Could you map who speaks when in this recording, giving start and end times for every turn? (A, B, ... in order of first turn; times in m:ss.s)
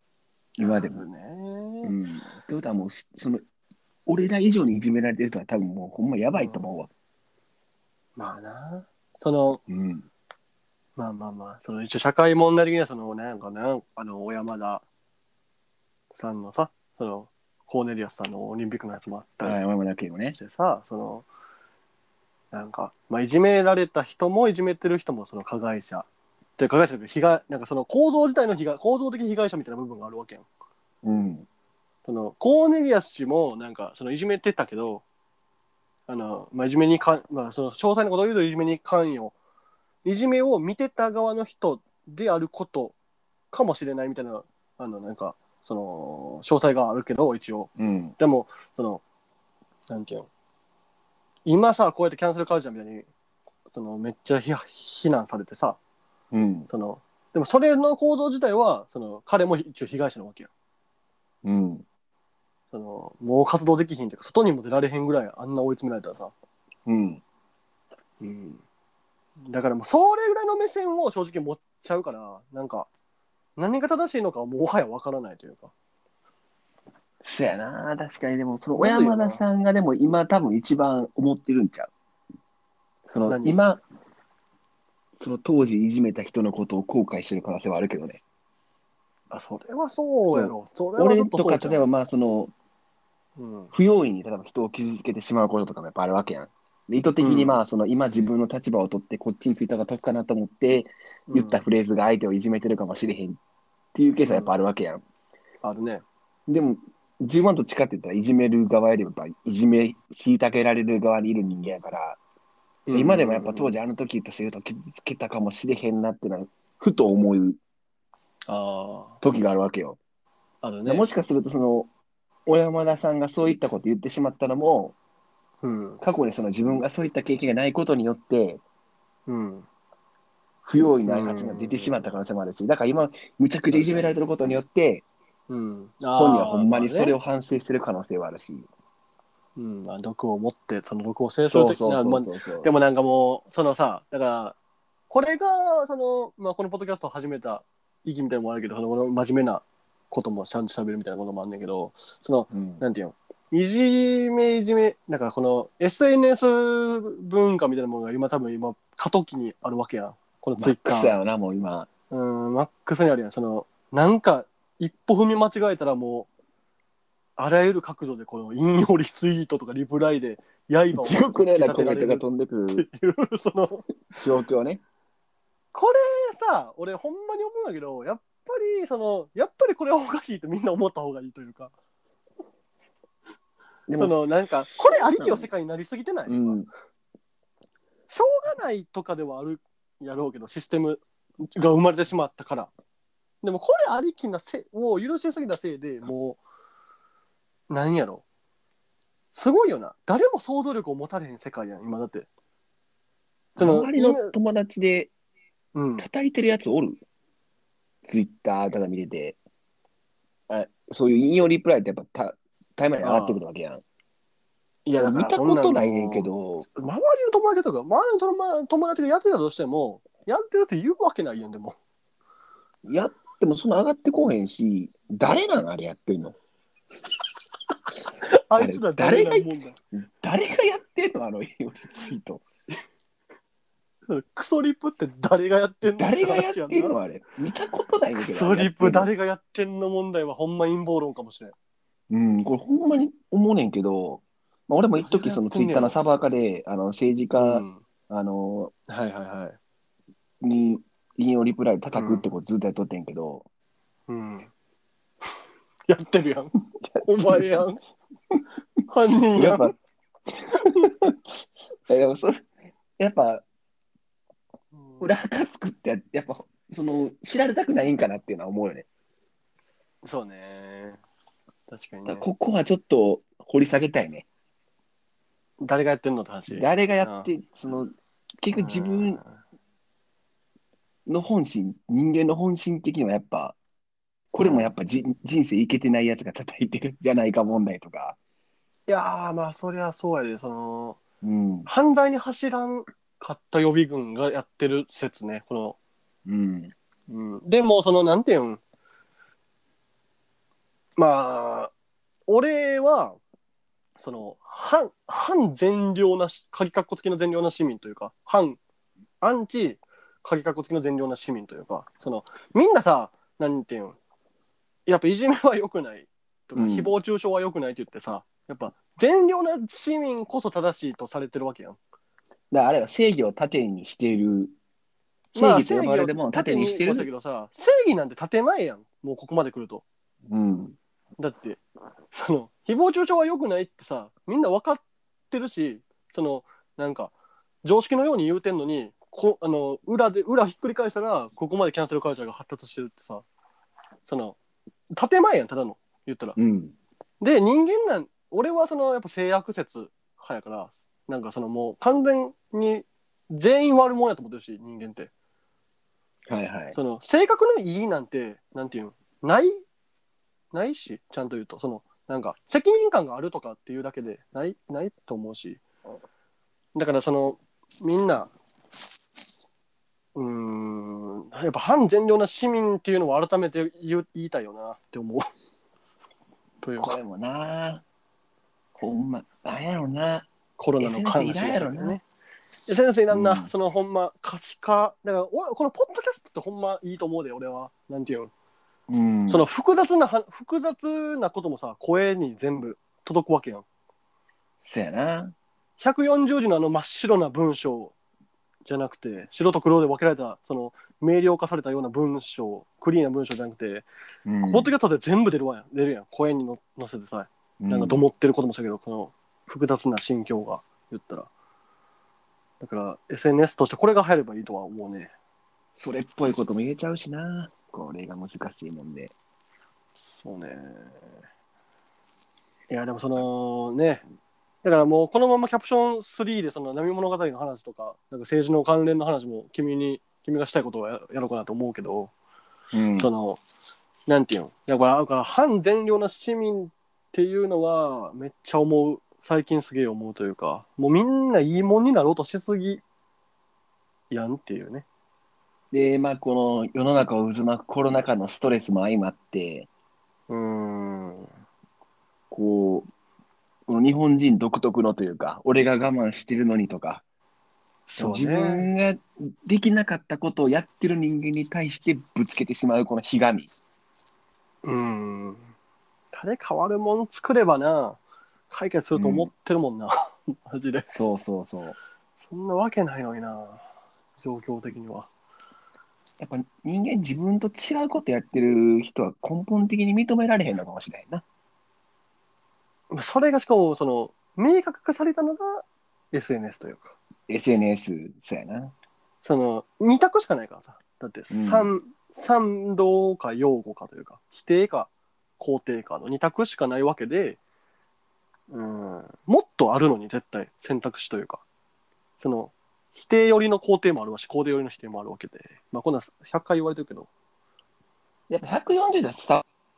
0:00.6-0:01.0 A
0:00.6-0:02.0 B
0:01.8-0:03.4 A
0:04.1-0:06.9 A
0:06.3-0:06.6 B
0:08.2-0:09.6 B
0:09.7-0:10.1 A
0:11.0-0:14.8 B
0:16.1-0:19.6 B
0:19.4-0:20.4 A
0:20.4-0:21.3 B
0:22.5-0:30.5 B
0:31.0-0:31.5 A
0:32.0-0:35.0 B
0:36.1-0:39.4 B
0:40.0-0:43.0 B
0:43.5-0:49.0 B
0:47.8-0:48.2 A
0:49.9-0:50.3 B
0:51.4-0:53.1 B
0:53.7-0:55.8 B
0:56.3-0:56.7 A
0:56.7-1:00.5 B
1:01.4-1:01.8 A
1:02.7-1:06.3 B
1:06.9-1:07.2 A
1:08.2-1:08.6 B
1:09.4-1:12.9 B
1:13.6-1:15.7 B
1:17.2-1:21.9 A
1:18.8-1:19.4 B
1:23.1-1:23.8 A
1:23.3-1:23.6 B
1:25.2-1:28.2 A
1:29.3-1:31.9 B
1:30.3-1:32.5 A
1:33.4-1:33.7 B
1:33.7-1:43.4 A
1:37.2-1:37.6 B
1:41.3-1:41.6 B
1:43.9-1:45.0 A
1:44.2-1:44.5 B
1:45.6-1:46.0 B
1:46.5-1:52.2 A
1:52.9-1:53.8 B
1:52.9-1:57.6 A
1:58.5-1:59.2 B
1:59.2-2:00.0 A
2:00.6-2:01.1 B
2:00.9-2:01.9 A
2:02.5-2:05.0 A
2:05.6-2:06.0 B
2:06.0-2:08.6 A
2:09.3-2:09.7 B
2:10.6-2:15.0 A
2:11.1-2:12.0 B
2:13.7-2:14.1 B
2:15.5-2:17.2 B
2:16.2-2:18.7 A
2:19.6-2:24.6 B
2:21.4-2:22.7 A
2:25.1-2:41.1 B
2:32.5-2:32.8 A
2:40.6-2:41.9 A
2:42.1-2:46.3 B
2:47.4-2:54.2 B
2:51.0-2:52.9 A
2:54.1-2:54.8 A
2:55.7-3:01.7 B
3:03.9-3:05.5 A
3:04.0-3:06.6 B
3:06.3-3:06.7 A
3:08.1-3:12.7 B
3:13.4-3:16.4 B
3:17.7-3:18.2 B
3:19.3-3:22.3 B
3:23.6-3:25.1 A
3:23.6-3:24.3 B
3:25.8-3:26.1 B
3:26.0-3:27.0 A
3:28.0-3:29.4 A
3:30.5-3:33.8 A
3:33.0-3:33.4 B
3:34.9-3:41.8 B
3:35.0-3:36.7 A
3:42.8-3:46.4 A
3:48.2-3:49.8 B
3:48.6-3:52.4 A
3:54.1-3:57.0 B
3:56.0-3:59.1 A
3:58.2-4:01.6 B
4:02.1-4:08.7 A
4:05.0-4:06.0 B
4:07.4-4:07.8 B
4:08.9-4:09.6 B
4:10.4-4:13.4 A
4:11.9-4:12.3 B
4:14.1-4:14.5 B
4:15.9-4:17.8 B
4:16.9-4:17.6 A
4:18.9-4:19.7 B
4:19.4-4:19.7 A
4:20.5-4:20.9 B
4:20.8-4:21.3 A
4:21.9-4:22.5 A
4:23.0-4:23.4 A
4:24.8-4:25.1 B
4:25.0-4:28.9 A
4:30.0-4:31.0 B
4:31.7-4:32.3 B
4:32.1-4:34.3 A
4:35.6-4:37.3 B
4:36.5-4:37.9 A
4:38.4-4:39.2 A
4:38.5-4:39.4 B
4:41.1-4:43.6 A
4:44.3-4:48.2 A
4:44.4-4:44.7 B
4:48.9-4:51.0 B
4:51.2-4:51.7 A
4:51.7-4:55.8 B
4:56.3-4:56.7 A
4:57.1-4:58.6 B
5:01.0-5:01.7 B
5:02.3-5:03.2 B
5:04.0-5:08.6 B
5:09.2-5:14.0 B
5:14.9-5:21.8 B
5:16.6-5:16.9 A
5:22.5-5:24.5 A
5:25.3-5:27.1 A
5:25.4-5:29.8 B
5:30.3-5:30.8 A
5:31.2-5:31.6 B
5:32.1-5:37.1 B
5:37.6-5:43.2 B
5:44.1-5:44.4 B
5:44.9-5:46.4 B
5:46.4-5:46.8 A
5:47.2-5:55.1 B
5:56.3-5:56.8 A
5:56.7-5:59.6 B
6:00.5-6:05.6 B
6:06.8-6:08.3 B
6:10.2-6:15.3 B
6:16.6-6:17.0 B
6:16.8-6:17.8 A
6:18.8-6:20.3 A
6:20.6-6:22.0 B
6:20.8-6:22.0 A
6:22.6-6:28.3 B
6:23.1-6:23.5 A
6:28.9-6:29.5 A
6:29.3-6:33.6 B
6:34.6-6:35.4 A
6:35.8-6:37.9 B
6:38.7-6:43.9 B
6:44.3-6:44.7 A
6:44.4-6:51.3 B
6:47.6-6:48.0 A
6:52.6-6:55.1 B
6:55.8-6:59.1 A
7:00.0-7:01.1 B
7:02.7-7:04.0 B
7:04.6-7:12.1 B
7:12.7-7:13.1 A
7:13.0-7:13.4 B
7:14.1-7:22.8 B
7:24.1-7:24.8 B
7:25.7-7:29.7 A
7:30.3-7:31.3 B
7:32.3-7:32.9 A
7:33.7-7:37.0 A
7:37.9-7:38.7 B
7:38.0-7:43.5 A
7:44.6-7:45.5 B
7:46.1-7:50.9 B
7:49.0-7:49.3 A
7:50.9-7:51.8 A
7:52.3-7:53.6 B
7:54.2-7:55.1 B
7:56.2-8:01.2 A
8:02.9-8:07.0 B
8:07.3-8:08.7 A
8:09.2-8:17.4 B
8:11.3-8:11.7 A
8:18.5-8:21.4 B
8:22.2-8:27.1 B
8:28.3-8:29.4 A